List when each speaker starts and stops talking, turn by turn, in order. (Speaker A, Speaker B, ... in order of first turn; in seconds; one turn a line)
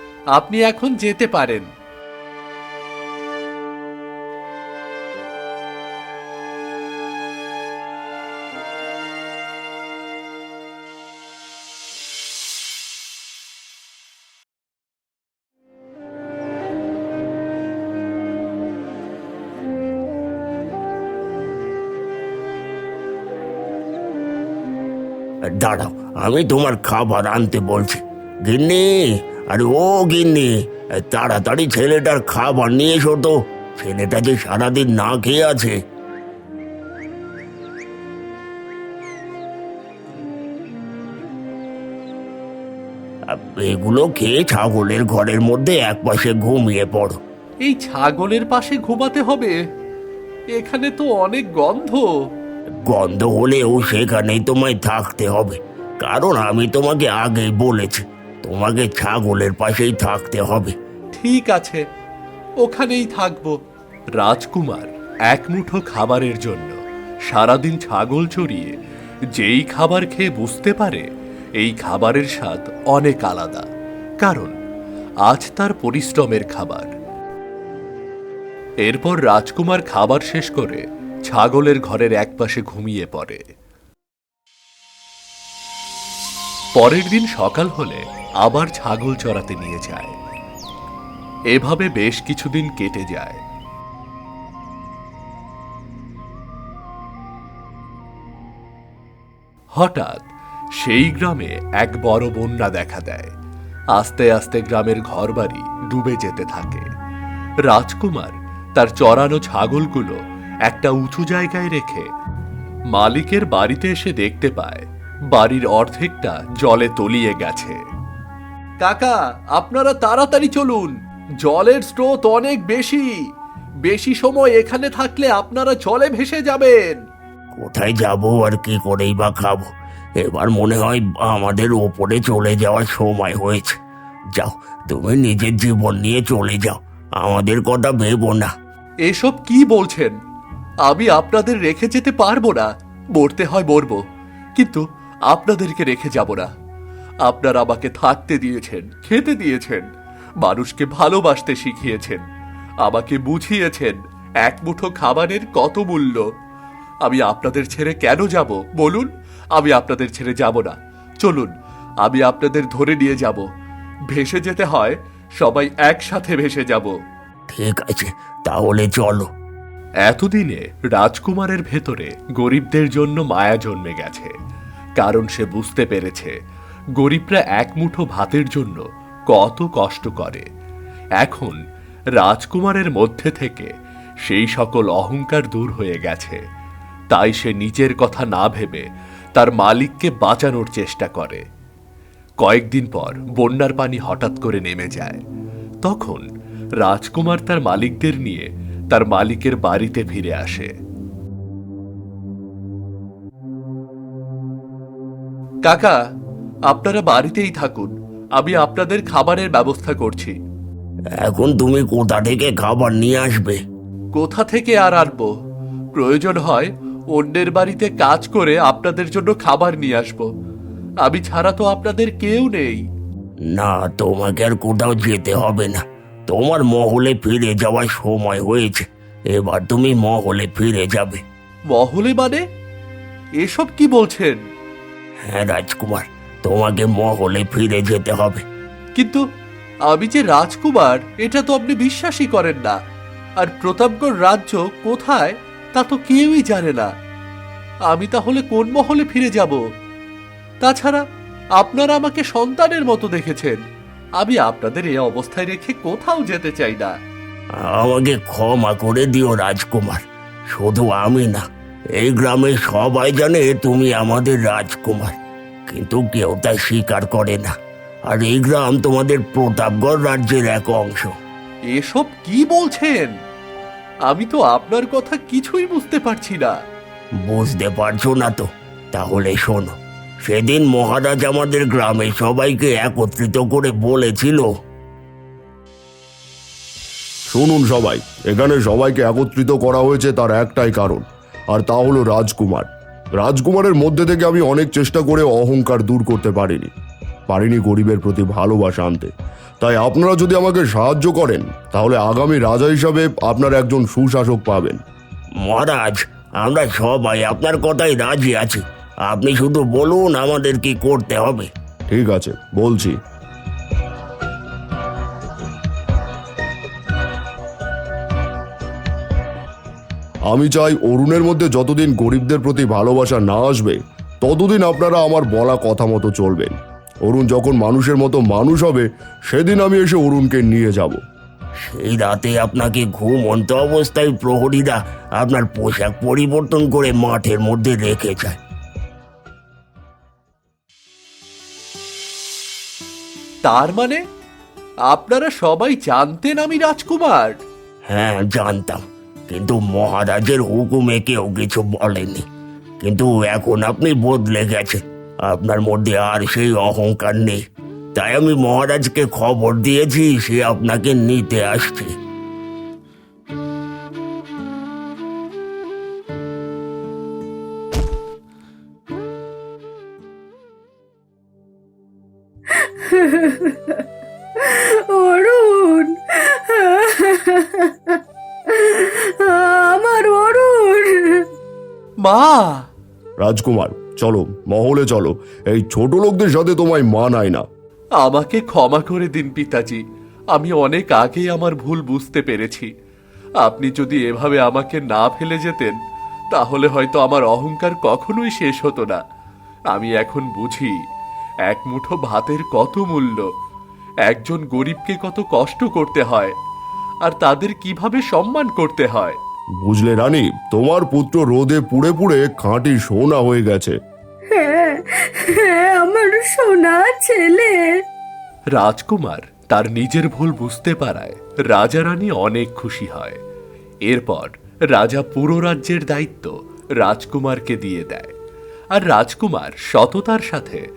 Speaker A: 0.3-1.7
Speaker B: 25.5-28.9
Speaker B: 29.5-35.8
Speaker B: 43.3-47.2
Speaker A: 47.6-49.5
Speaker A: 50.5-52.1
Speaker B: 52.9-60.7
Speaker A: 61.1-61.8
Speaker A: 62.6-63.6
Speaker A: 64.2-66.8
Speaker A: 67.3-68.8
Speaker A: 69.3-71.1
Speaker A: 71.6-73.7
Speaker A: 74.2-74.6
Speaker A: 75.2-76.9
Speaker A: 78.8-83.4
Speaker A: 86.7-90.1
Speaker A: 91.5-93.4
Speaker A: 99.8-100.2
Speaker A: 100.8-103.3
Speaker A: 103.9-106.9
Speaker A: 107.7-112.1
Speaker A: 112.9-117.8
Speaker A: 118.8-123.2
Speaker A: 123.8-127.0
Speaker B: 127.5-129.7
Speaker B: 130.2-133.8
Speaker B: 134.3-138.5
Speaker A: 139.1-140.1
Speaker A: 140.8-144.0
Speaker A: 144.6-146.5
Speaker A: 147.2-149.8
Speaker A: 150.4-152.2
Speaker A: 152.8-156.3
Speaker A: 157.0-163.4
Speaker A: 164.1-166.9
Speaker B: 167.5-169.3
Speaker A: 170.0-174.3
Speaker A: 175.0-176.3
Speaker A: 176.9-180.4
Speaker A: 181.2-181.6
Speaker A: 182.2-183.7
Speaker A: 184.2-186.4
Speaker A: 187.1-191.4
Speaker A: 192.4-195.2
Speaker A: 195.8-196.3
Speaker A: 196.8-200.7
Speaker A: 205.6-206.0
Speaker A: 206.7-210.4
Speaker B: 211.2-213.6
Speaker A: 214.1-215.3
Speaker A: 215.9-220.3
Speaker A: 221.0-222.8
Speaker B: 223.5-231.2
Speaker A: 231.7-232.4
Speaker A: 233.4-234.4
Speaker B: 235.2-238.4
Speaker A: 238.9-239.2
Speaker A: 239.8-242.8
Speaker A: 243.4-246.9
Speaker A: 247.9-249.6
Speaker A: 250.6-251.0
Speaker A: 251.6-253.6
Speaker A: 254.2-257.0
Speaker B: 257.6-261.4
Speaker B: 262.0-265.1
Speaker B: 265.7-267.5
Speaker B: 268.1-271.1
Speaker A: 271.7-273.1
Speaker A: 274.1-276.5
Speaker B: 277.2-284.5
Speaker C: 287.3-292.7
Speaker C: 293.2-296.7
Speaker C: 297.3-304.8
Speaker B: 305.4-311.5
Speaker C: 311.9-312.9
Speaker C: 320.3-326.5
Speaker C: 327.1-331.0
Speaker B: 331.6-338.4
Speaker A: 343.4-344.0
Speaker A: 344.9-347.4
Speaker B: 347.9-352.2
Speaker B: 352.8-357.4
Speaker B: 357.9-361.9
Speaker D: 372.6-373.8
Speaker D: 374.4-377.9
Speaker D: 378.5-381.2
Speaker A: 382.0-382.6
Speaker C: 383.2-387.4
Speaker A: 388.0-392.7
Speaker A: 393.4-395.8
Speaker A: 396.3-399.0
Speaker A: 399.7-400.8
Speaker A: 401.4-403.3
Speaker A: 404.0-406.3
Speaker A: 407.0-409.2
Speaker C: 409.6-413.7
Speaker D: 414.3-417.6
Speaker A: 418.5-423.2
Speaker A: 423.9-428.1
Speaker A: 428.7-430.6